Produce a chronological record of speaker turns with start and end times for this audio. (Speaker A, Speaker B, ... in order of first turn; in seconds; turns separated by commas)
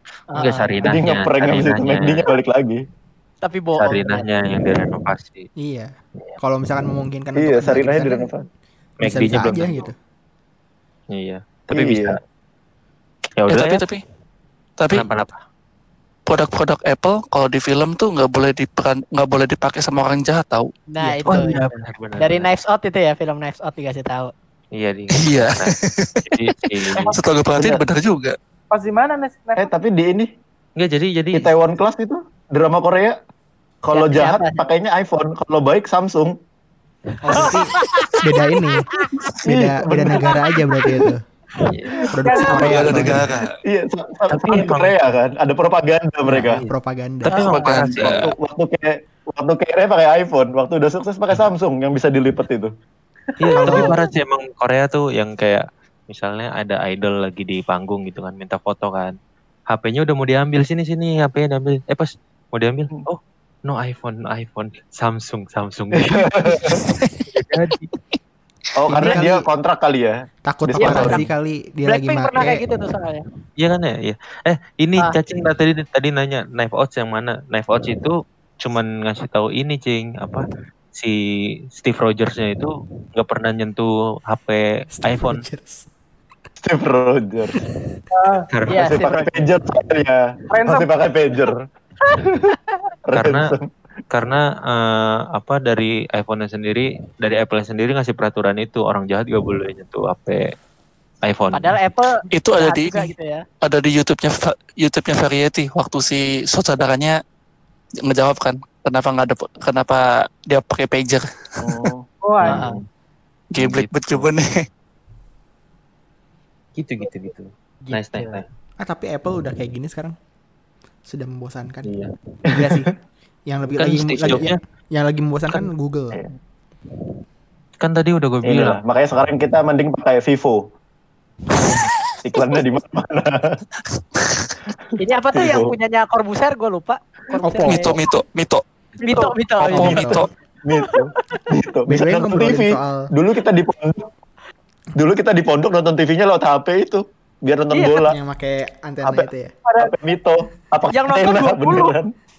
Speaker A: 0.3-0.9, Speaker B: 0.4-2.3, Speaker C: 0.8-2.8, Speaker A: 3.4-4.3, Speaker B: 3.8-5.5, Speaker D: 5.6-8.3, Speaker C: 7.3-8.4, Speaker B: 9.0-9.9, Speaker D: 9.0-9.9, Speaker B: 11.1-12.2, Speaker C: 11.7-12.2, Speaker B: 13.4-13.8, Speaker E: 13.5-14.0, Speaker E: 14.8-15.1, Speaker B: 14.9-15.4, Speaker E: 16.3-21.7, Speaker A: 20.9-21.6, Speaker B: 21.2-22.5, Speaker A: 22.2-24.3, Speaker B: 24.8-25.7, Speaker E: 25.2-28.3, Speaker B: 26.3-27.1, Speaker C: 27.6-27.8, Speaker F: 28.7-29.7, Speaker C: 29.6-30.3, Speaker B: 30.8-31.5, Speaker C: 31.3-33.1, Speaker C: 33.8-36.3, Speaker A: 33.9-34.6, Speaker A: 37.2-39.3, Speaker D: 37.2-38.9, Speaker C: 39.4-40.4, Speaker D: 39.4-41.2, Speaker B: 41.6-42.1, Speaker F: 41.9-43.1, Speaker D: 42.1-43.3, Speaker E: 42.4-43.6, Speaker C: 43.6-46.6, Speaker B: 44.3-45.0, Speaker B: 46.3-46.7, Speaker D: 46.6-47.5, Speaker A: 47.2-47.7, Speaker E: 47.3-48.3, Speaker B: 47.3-48.3, Speaker C: 47.4-52.7, Speaker F: 53.4-53.8, Speaker B: 53.4-59.1, Speaker D: 53.5-54.0, Speaker B: 59.7-66.8, Speaker C: 66.0-66.8, Speaker E: 66.7-67.5, Speaker B: 67.3-67.9, Speaker C: 68.8-71.2, Speaker D: 68.9-69.5, Speaker D: 70.5-72.6, Speaker A: 70.8-71.2, Speaker E: 70.9-71.2, Speaker A: 71.8-73.3, Speaker B: 73.6-81.2, Speaker B: 81.7-85.4, Speaker D: 85.0-85.9, Speaker C: 86.6-87.6, Speaker F: 88.1-88.5, Speaker B: 88.5-89.0, Speaker A: 88.7-89.3, Speaker C: 88.7-91.6, Speaker F: 90.5-90.9, Speaker C: 93.1-93.7, Speaker B: 93.2-93.5, Speaker B: 94.1-100.5, Speaker B: 101.2-101.8, Speaker A: 101.5-103.4, Speaker E: 102.3-103.1, Speaker E: 103.6-107.2, Speaker E: 108.0-111.8, Speaker C: 111.6-112.0, Speaker F: 112.2-112.6, Speaker B: 112.4-112.8, Speaker A: 112.5-112.8, Speaker E: 113.5-114.6, Speaker B: 113.6-114.3, Speaker B: 116.8-118.5, Speaker D: 118.8-120.2, Speaker D: 121.0-121.9, Speaker B: 121.8-122.1, Speaker D: 122.5-122.9, Speaker D: 123.5-126.2, Speaker B: 123.8-124.6, Speaker B: 127.8-128.8, Speaker C: 128.4-130.6, Speaker C: 132.2-133.5, Speaker E: 133.9-134.6, Speaker A: 135.0-138.0, Speaker C: 135.3-135.7, Speaker D: 137.4-137.9, Speaker E: 137.6-138.6, Speaker B: 139.0-139.3, Speaker A: 139.0-140.2, Speaker E: 139.6-140.3, Speaker C: 139.7-144.1, Speaker A: 140.8-141.5, Speaker D: 141.9-143.1, Speaker C: 144.9-148.1, Speaker A: 147.7-148.1, Speaker D: 148.0-149.5, Speaker C: 149.8-152.1, Speaker A: 150.9-151.9